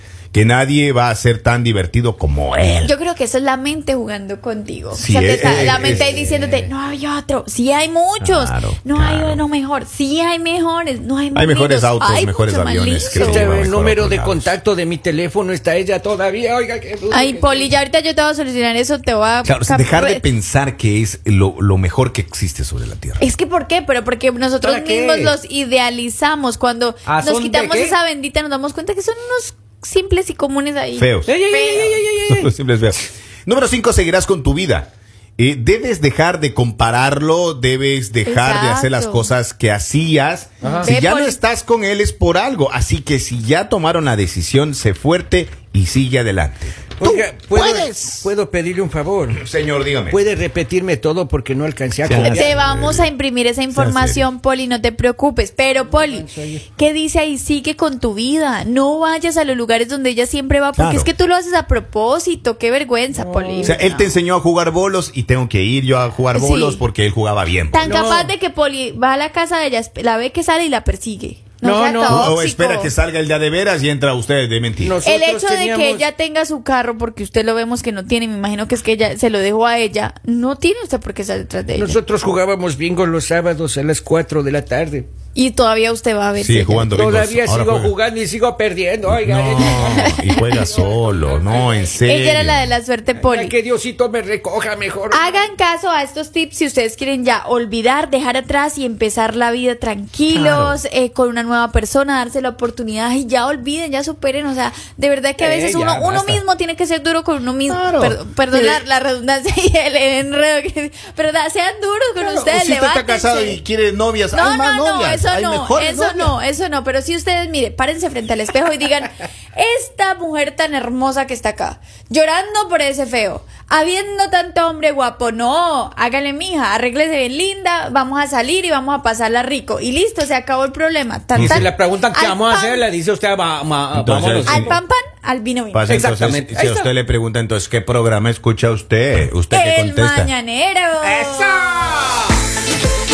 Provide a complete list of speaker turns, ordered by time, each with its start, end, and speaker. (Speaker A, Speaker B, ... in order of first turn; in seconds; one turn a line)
Speaker A: 0.3-2.9
Speaker B: 2.8-13.5
Speaker A: 4.9-6.5
Speaker C: 5.4-6.4
Speaker A: 8.2-9.4
Speaker A: 11.3-14.5
Speaker C: 13.1-17.7
Speaker B: 17.1-20.2
Speaker A: 19.4-23.2
Speaker B: 23.2-31.9
Speaker C: 24.6-25.4
Speaker C: 27.1-27.9
Speaker A: 30.9-48.3
Speaker C: 31.3-32.5
Speaker B: 38.2-39.3
Speaker C: 40.6-40.9
Speaker B: 40.6-41.4
Speaker C: 47.0-49.4
Speaker A: 49.3-50.2
Speaker C: 50.1-52.6
Speaker A: 52.0-53.1
Speaker B: 52.2-64.1
Speaker A: 53.7-54.3
Speaker C: 55.8-56.7
Speaker A: 60.7-61.1
Speaker C: 63.1-63.8
Speaker A: 63.6-68.1
Speaker B: 66.3-66.8
Speaker B: 67.7-72.9
Speaker C: 67.8-68.3
Speaker C: 71.6-72.3
Speaker A: 72.1-75.0
Speaker C: 74.8-76.0
Speaker B: 75.0-82.0
Speaker C: 81.7-85.1
Speaker B: 85.3-87.1
Speaker A: 86.4-87.9
Speaker C: 86.9-91.9
Speaker A: 89.0-92.7
Speaker B: 89.6-90.7
Speaker B: 92.0-93.5
Speaker C: 93.1-95.5
Speaker B: 95.1-113.6
Speaker A: 100.3-100.8
Speaker C: 105.4-106.4
Speaker A: 107.7-108.8
Speaker A: 112.2-116.3
Speaker B: 114.3-132.8
Speaker A: 131.3-131.7
Speaker C: 131.3-134.7
Speaker A: 133.9-134.8
Speaker B: 134.4-135.9
Speaker A: 135.7-140.3
Speaker C: 135.9-136.9
Speaker B: 139.5-141.8
Speaker C: 141.0-142.3